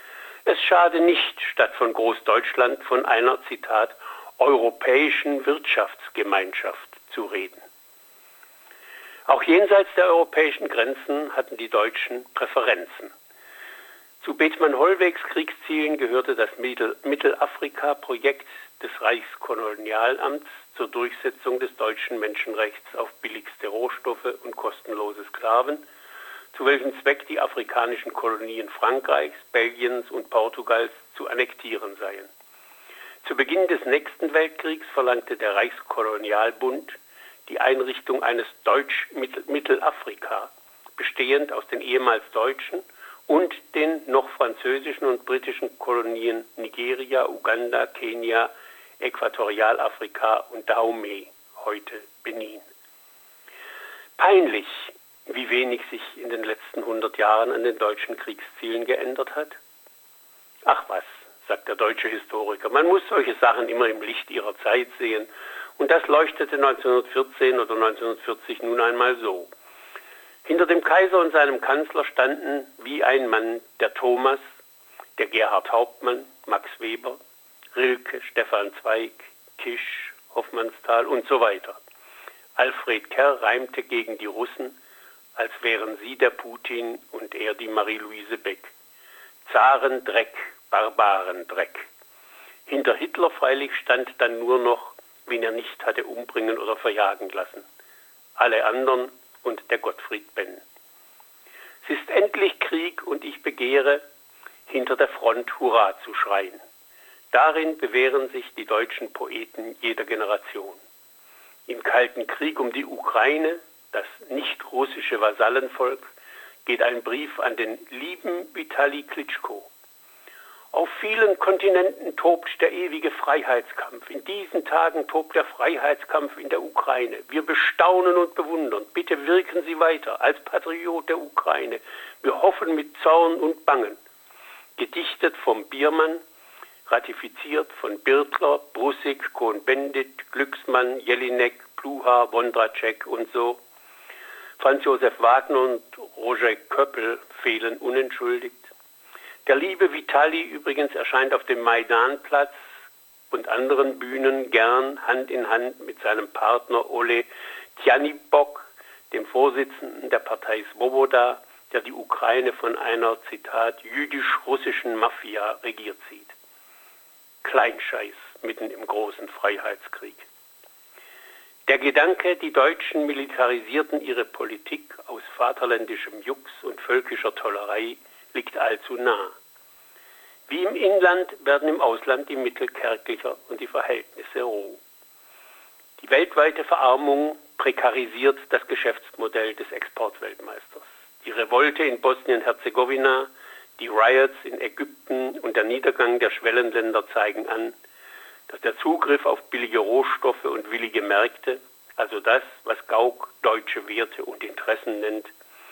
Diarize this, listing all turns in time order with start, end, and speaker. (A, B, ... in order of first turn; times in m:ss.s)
0:00.4-0:07.6 A
0:09.3-0:13.1 A
0:14.2-0:25.8 A
0:26.5-0:32.3 A
0:33.2-0:52.6 A
0:54.2-0:59.6 A
1:00.6-1:09.5 A
1:10.4-1:14.4 A
1:15.2-1:17.2 A
1:17.7-1:21.8 A
1:22.6-1:24.8 A
1:25.4-1:28.7 A
1:29.4-1:31.9 A
1:32.7-1:37.7 A
1:38.4-1:40.6 A
1:41.8-1:44.0 A
1:44.7-1:46.6 A
1:47.3-1:50.8 A
1:51.7-1:56.1 A
1:56.6-1:59.7 A
2:00.7-2:14.0 A
2:14.8-2:16.2 A
2:16.9-2:23.6 A
2:24.6-2:28.7 A
2:29.4-2:32.6 A
2:33.3-2:46.3 A
2:47.4-2:50.2 A
2:51.7-2:59.4 A
3:00.5-3:04.8 A
3:06.0-3:17.7 A
3:18.5-3:25.3 A